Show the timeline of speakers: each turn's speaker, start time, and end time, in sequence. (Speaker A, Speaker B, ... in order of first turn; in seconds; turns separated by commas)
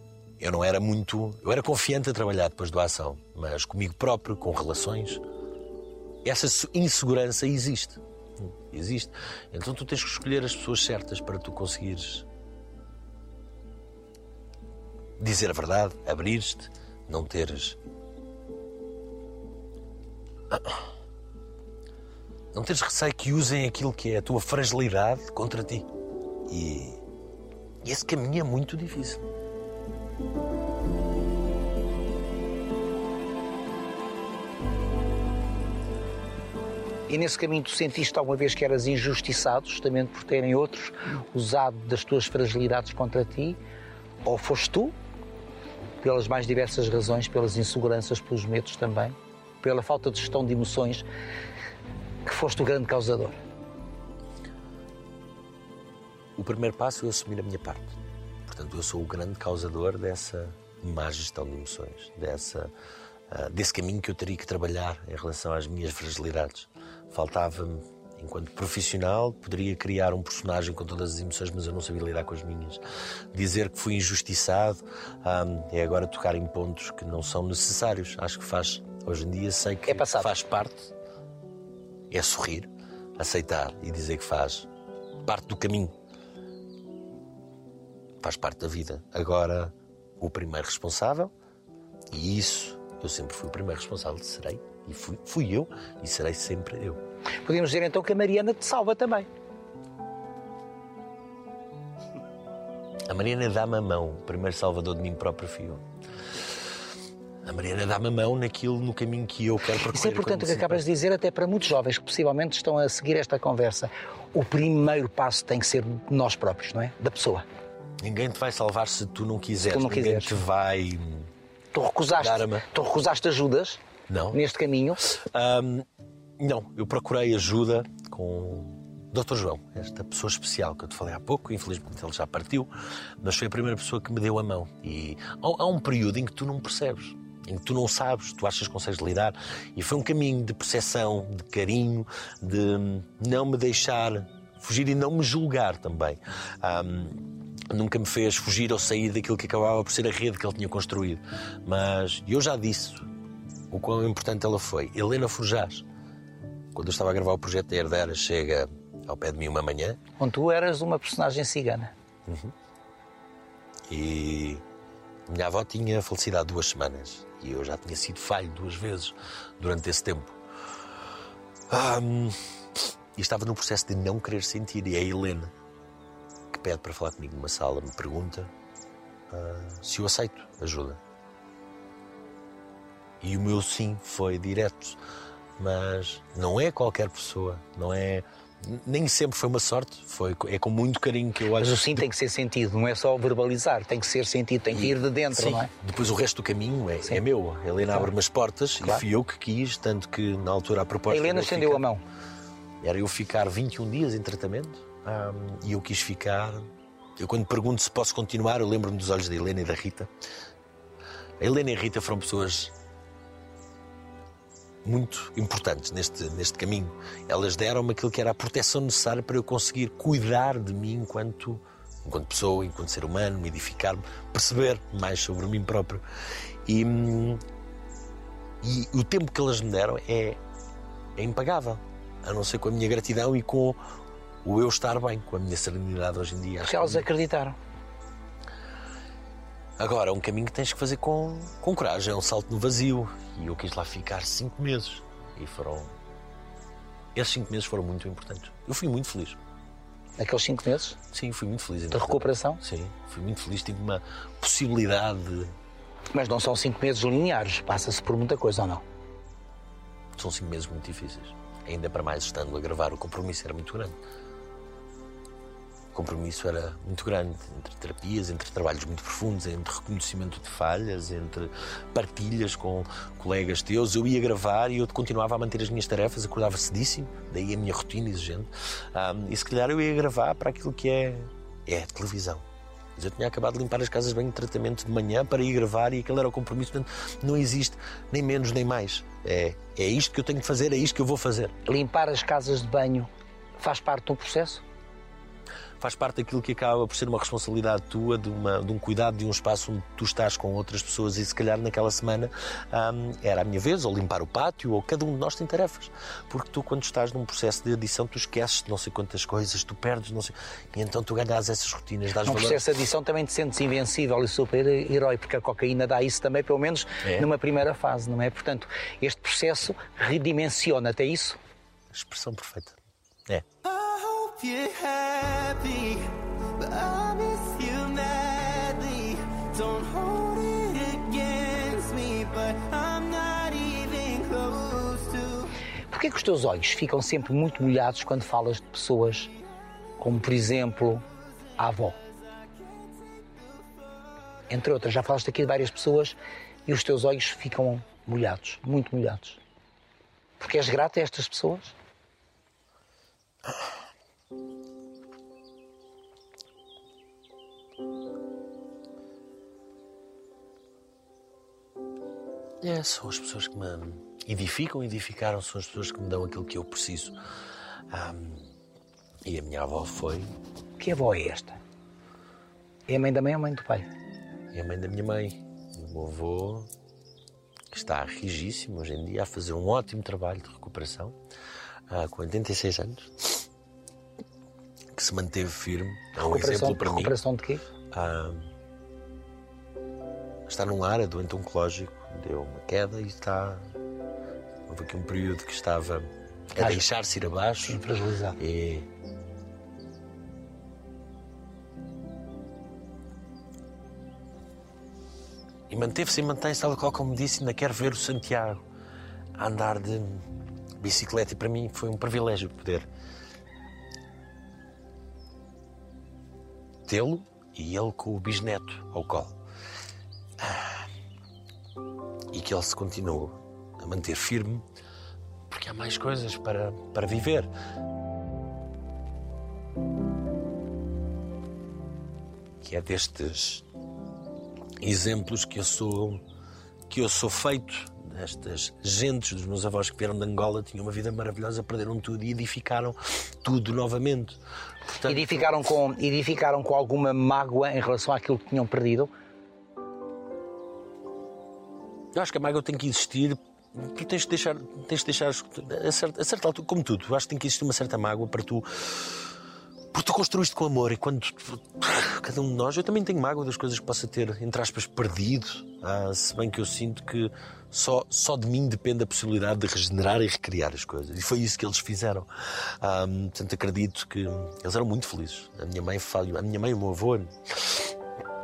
Speaker A: 0.4-5.2, Speaker A: 6.2-12.3, Speaker A: 15.2-17.8, Speaker A: 20.5-20.8, Speaker A: 22.5-25.9, Speaker A: 26.5-27.0, Speaker A: 27.8-29.2, Speaker B: 37.1-43.6, Speaker B: 44.2-44.9, Speaker B: 46.0-51.0, Speaker B: 52.2-53.4, Speaker A: 56.4-57.9, Speaker A: 58.5-62.7, Speaker A: 63.3-72.8, Speaker A: 73.3-80.9, Speaker B: 79.9-80.3, Speaker A: 82.1-84.7, Speaker A: 85.2-85.9, Speaker A: 88.2-91.3, Speaker A: 92.1-97.0, Speaker B: 97.4-99.3, Speaker A: 103.1-105.8, Speaker A: 107.4-110.8, Speaker B: 109.8-117.4, Speaker A: 118.0-121.3, Speaker B: 119.6-120.4, Speaker B: 121.7-123.8, Speaker A: 122.2-122.7, Speaker A: 124.1-124.4, Speaker B: 124.3-125.0, Speaker A: 125.0-125.9, Speaker A: 126.4-132.7, Speaker A: 133.2-153.1, Speaker A: 153.7-155.8, Speaker A: 156.7-160.0, Speaker B: 160.2-161.9, Speaker A: 162.3-162.5, Speaker A: 163.9-164.6, Speaker A: 165.3-170.4, Speaker A: 171.7-175.5, Speaker A: 176.5-178.5, Speaker A: 179.3-181.0, Speaker A: 183.2-185.0, Speaker A: 185.6-192.1, Speaker B: 191.6-195.7, Speaker A: 194.7-201.8, Speaker B: 201.1-202.0, Speaker A: 202.8-210.1, Speaker A: 211.4-212.7, Speaker A: 214.8-226.0, Speaker A: 226.7-227.4, Speaker A: 228.6-230.4, Speaker A: 231.2-233.8, Speaker A: 234.4-237.1, Speaker B: 236.6-237.6, Speaker A: 239.8-245.9, Speaker A: 247.1-249.4, Speaker B: 250.2-251.0, Speaker A: 251.1-255.6, Speaker B: 251.9-252.6, Speaker B: 256.1-258.8, Speaker A: 260.1-263.9, Speaker A: 265.9-282.4, Speaker A: 282.9-291.6, Speaker B: 291.6-294.6, Speaker A: 295.8-312.7, Speaker B: 312.2-321.4, Speaker A: 321.9-323.4, Speaker C: 323.6-335.5, Speaker B: 335.9-339.3, Speaker B: 340.0-341.0, Speaker B: 341.6-342.0, Speaker B: 344.5-349.4, Speaker B: 350.4-351.7, Speaker A: 362.6-367.1, Speaker A: 367.9-368.5, Speaker A: 369.2-370.3, Speaker B: 370.8-371.6, Speaker B: 372.9-373.9, Speaker A: 374.5-376.7, Speaker A: 377.7-381.2, Speaker A: 381.9-383.4, Speaker A: 384.9-387.1, Speaker B: 386.1-387.6, Speaker A: 387.9-388.5, Speaker A: 390.5-393.7, Speaker A: 394.7-397.8, Speaker B: 397.6-398.4, Speaker A: 398.4-398.9, Speaker A: 405.7-408.6, Speaker A: 409.4-410.3, Speaker A: 410.8-412.9, Speaker A: 416.9-419.4, Speaker A: 420.4-420.9, Speaker A: 422.3-424.6, Speaker A: 425.5-427.5, Speaker A: 432.6-433.6, Speaker A: 434.8-436.2, Speaker A: 436.9-445.6, Speaker B: 445.0-449.1, Speaker A: 452.1-459.3, Speaker A: 459.9-477.9